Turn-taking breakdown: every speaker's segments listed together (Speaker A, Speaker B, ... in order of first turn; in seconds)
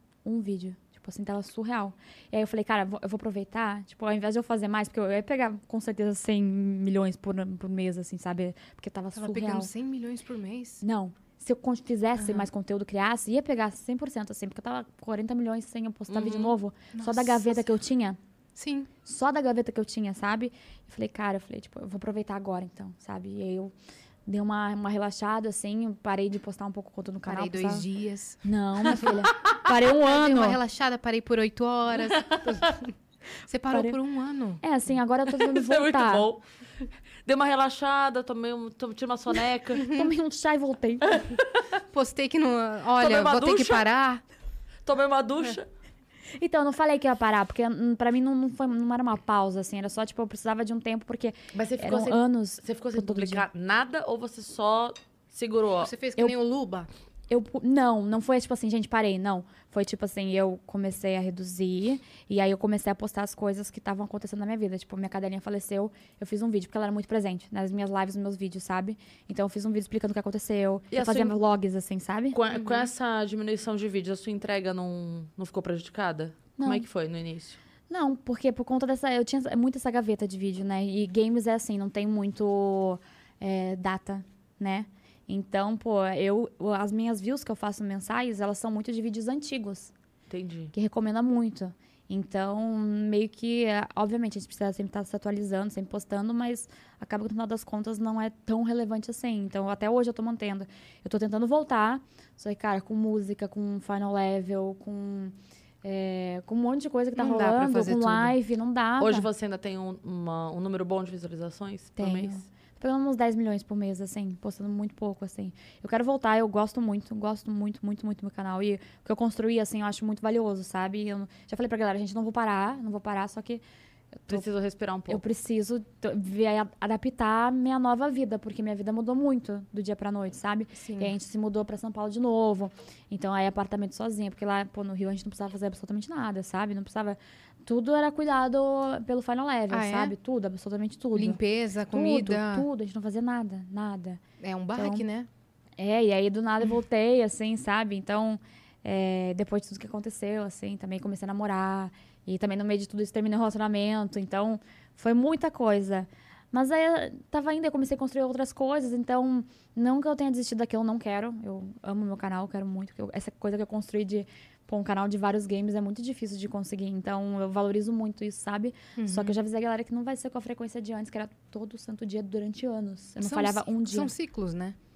Speaker A: 0.2-9.7, 10.8-18.2, 19.0-23.7, 24.2-27.9, 28.4-30.6, 33.7-34.0, 34.6-36.3, 39.8-41.2, 46.4-53.4, 57.3-72.4, 76.6-76.8, 77.9-89.9, 90.7-109.3, 112.0-123.6, 124.2-124.5, 125.1-141.4, 141.9-144.2, 144.8-145.0, 145.8-174.1
Speaker B: 9.1-10.8, 12.2-12.5, 16.9-17.6, 18.5-18.9, 27.2-28.4, 30.0-32.9, 33.5-34.6, 39.8-40.1, 41.9-44.2, 55.8-56.9, 72.5-72.9, 107.2-108.3, 130.7-131.1, 139.7-140.1, 141.1-142.7, 144.4-145.3, 169.0-169.4, 173.2-174.8
Speaker C: 16.1-16.6, 32.1-32.6, 35.3-36.4, 37.2-39.8, 41.1-41.6, 43.0-43.9, 44.9-45.7, 51.5-55.9, 70.9-71.3, 72.3-77.6, 90.3-90.7, 109.0-112.4, 124.3-125.2